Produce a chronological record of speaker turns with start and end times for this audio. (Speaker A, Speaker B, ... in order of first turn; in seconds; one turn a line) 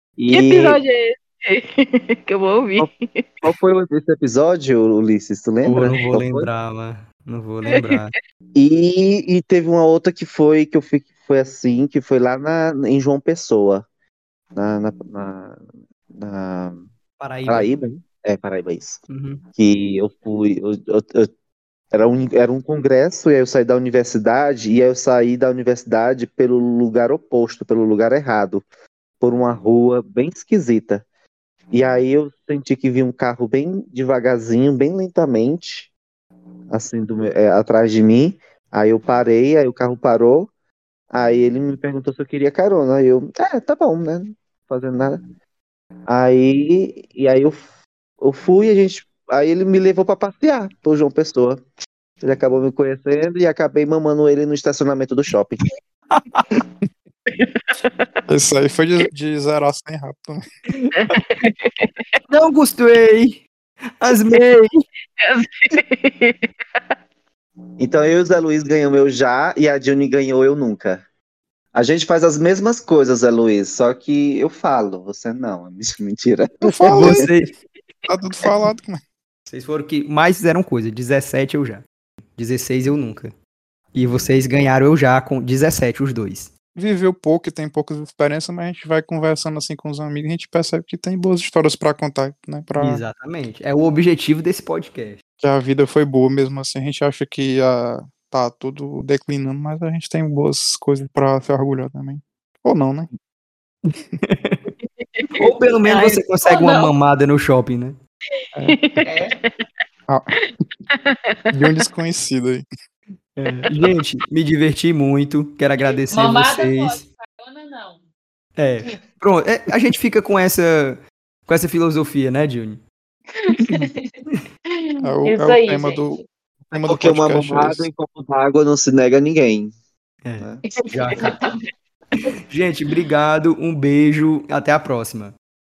Speaker A: 0.2-0.8
Speaker B: 0.3-3.4
Speaker A: 3.4-6.5
Speaker C: 5.6-8.1
Speaker B: 7.7-8.1
Speaker A: 8.5-13.8
Speaker A: 14.5-15.6
Speaker A: 16.1-16.9
Speaker C: 17.2-17.8
Speaker A: 17.4-19.0
Speaker C: 19.1-19.4
Speaker A: 19.6-21.3
Speaker A: 21.9-28.6
Speaker A: 29.2-31.0
Speaker A: 31.7-35.9
Speaker A: 36.7-40.5
Speaker A: 41.1-45.2
Speaker A: 46.1-47.6
Speaker A: 48.2-51.6
Speaker A: 52.2-55.6
Speaker C: 56.1-56.4
Speaker B: 57.3-58.2
Speaker D: 58.3-60.4
Speaker C: 60.8-61.1
Speaker B: 61.0-62.0
Speaker C: 62.3-63.4
Speaker C: 64.0-64.7
Speaker B: 65.2-66.9
Speaker A: 67.8-71.0
Speaker A: 71.7-77.2
Speaker D: 76.6-77.3
Speaker C: 76.9-77.5
Speaker D: 78.1-79.0
Speaker C: 79.5-81.8
Speaker C: 82.3-83.3
Speaker C: 83.9-86.5
Speaker D: 86.7-93.0
Speaker C: 92.8-95.2
Speaker D: 95.4-103.1
Speaker C: 103.9-104.7
Speaker B: 104.8-105.4
Speaker C: 105.4-108.0
Speaker E: 105.9-106.9
Speaker B: 108.6-109.6
Speaker E: 109.0-109.3
Speaker B: 110.9-111.9
Speaker D: 111.5-112.7
Speaker C: 113.4-117.0
Speaker E: 116.1-118.0
Speaker C: 118.6-122.8
Speaker E: 123.5-124.2
Speaker D: 123.6-123.9
Speaker E: 124.7-126.2
Speaker D: 125.0-127.8
Speaker A: 126.8-129.7
Speaker C: 130.2-131.3
Speaker E: 130.8-131.4
Speaker C: 132.5-135.3